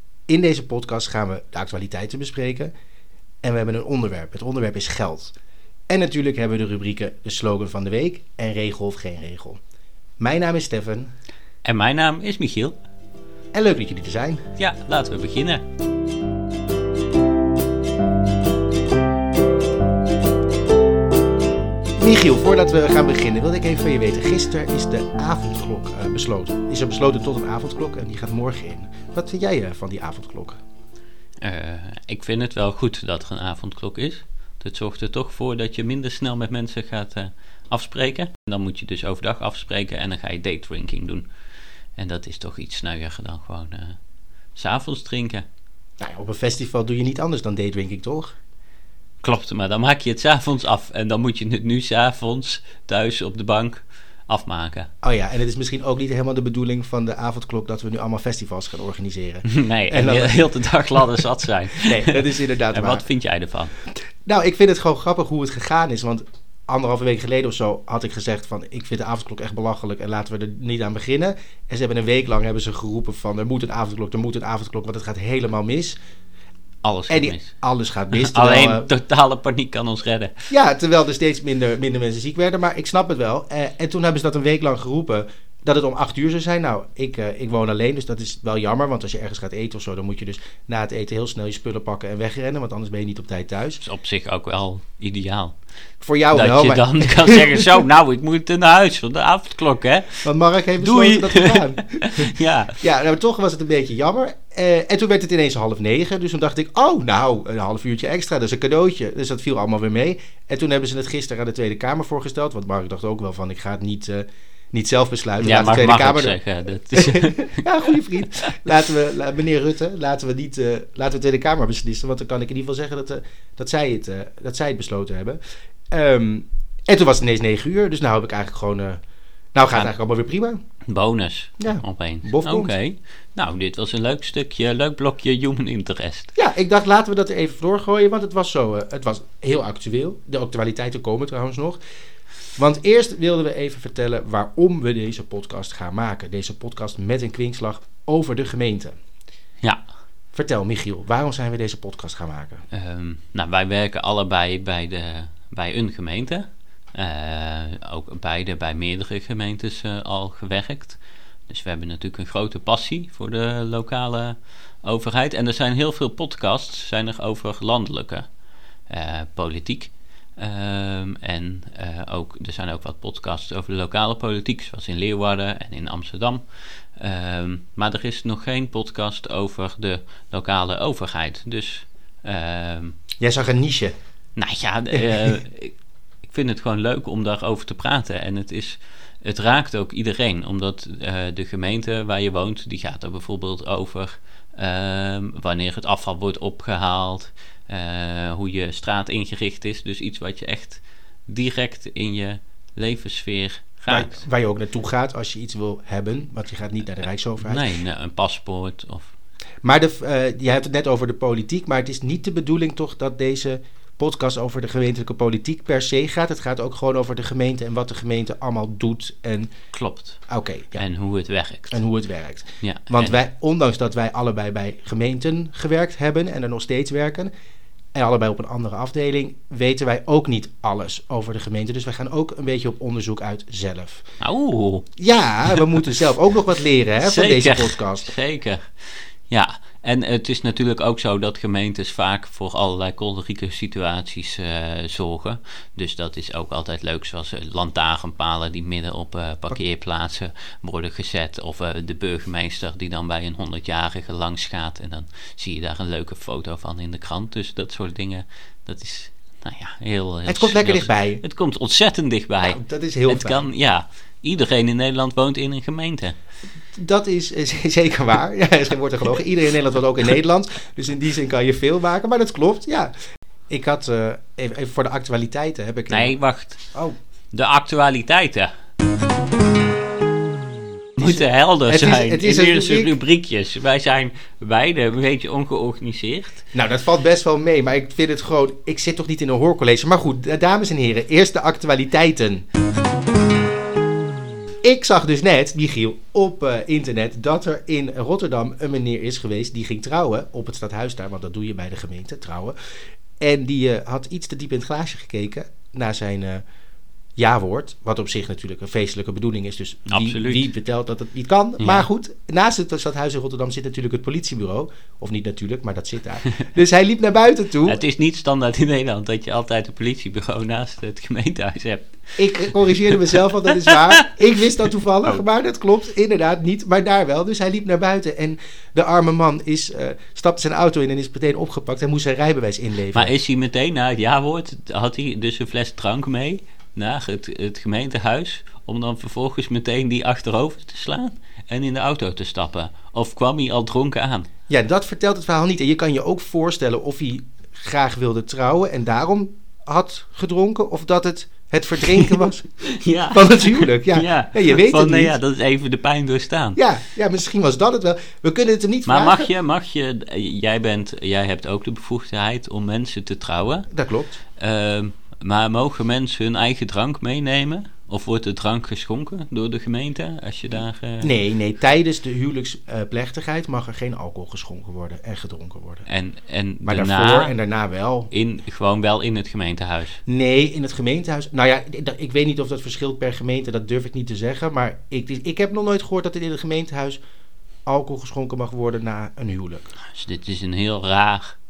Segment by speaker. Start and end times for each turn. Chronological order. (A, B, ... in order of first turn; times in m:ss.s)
0:00.3-0:02.7 A
0:03.4-0:05.3 A
0:05.9-0:09.6 A
0:10.2-0:11.1 A
0:11.6-0:12.7 B
0:13.5-0:14.4 A
0:14.6-0:15.6 B
0:22.0-0:30.6 A
0:31.4-0:41.3 B
0:42.0-0:44.0 B
0:44.5-0:45.4 B
0:46.0-0:48.3 A
0:49.2-0:54.9 B
0:55.0-1:01.2 A
0:59.4-1:03.7 B
1:01.8-1:03.0 A
1:04.2-1:16.0 A
1:16.8-1:17.5 B
1:17.1-1:18.9 A
1:18.1-1:20.4 B
1:20.5-1:33.8 A
1:33.8-1:35.6 B
1:36.0-1:37.8 A
1:36.3-1:42.8 B
1:40.2-1:56.4 A
1:55.4-1:57.6 B
1:56.9-2:05.4 A
2:05.9-2:09.0 A
2:09.5-2:10.6 A
2:10.8-2:16.3 B
2:11.6-2:12.7 A
2:16.3-2:21.8 A
2:22.6-2:28.9 A
2:30.3-2:32.6 A
2:32.7-2:48.3 B
2:48.9-3:03.0 B
3:03.2-3:03.9 A
3:04.4-3:24.1 B
3:05.0-3:05.3 A
3:23.9-3:27.6 A
3:27.4-3:29.1 B
3:29.6-3:39.5 A
3:39.7-3:40.2 B
3:40.3-3:40.8 A
3:40.7-3:41.8 B
3:41.7-3:47.3 A
3:42.6-3:43.2 B
3:47.9-3:54.0 A
3:54.2-3:54.9 B
3:55.0-3:58.1 A
3:57.0-4:26.2 B
4:20.2-4:21.2 A
4:22.5-4:23.4 A
4:26.7-4:32.9 A
4:33.5-4:36.1 A
4:35.9-4:36.6 B
4:37.3-4:38.5 B
4:41.0-4:46.4 B
4:41.0-4:42.9 A
4:46.5-4:52.4 A
4:54.6-5:02.5 A
5:03.2-5:06.4 A
5:07.2-5:17.8 A
5:09.9-5:10.5 B
5:11.6-5:11.9 B
5:17.6-5:24.0 B
5:22.2-5:33.1 A
5:32.9-5:44.3 B
5:44.5-5:52.5 A
5:52.7-5:56.6 B
5:53.1-5:55.2 A
5:56.6-5:59.3 A
5:58.9-6:03.7 B
6:03.7-6:04.2 A
6:04.4-6:11.1 B
6:11.0-6:15.9 A
6:15.9-6:17.3 B
6:16.6-6:18.1 A
6:18.1-6:20.0 B
6:20.0-6:27.0 A
6:27.6-6:29.7 A
6:29.8-6:31.3 B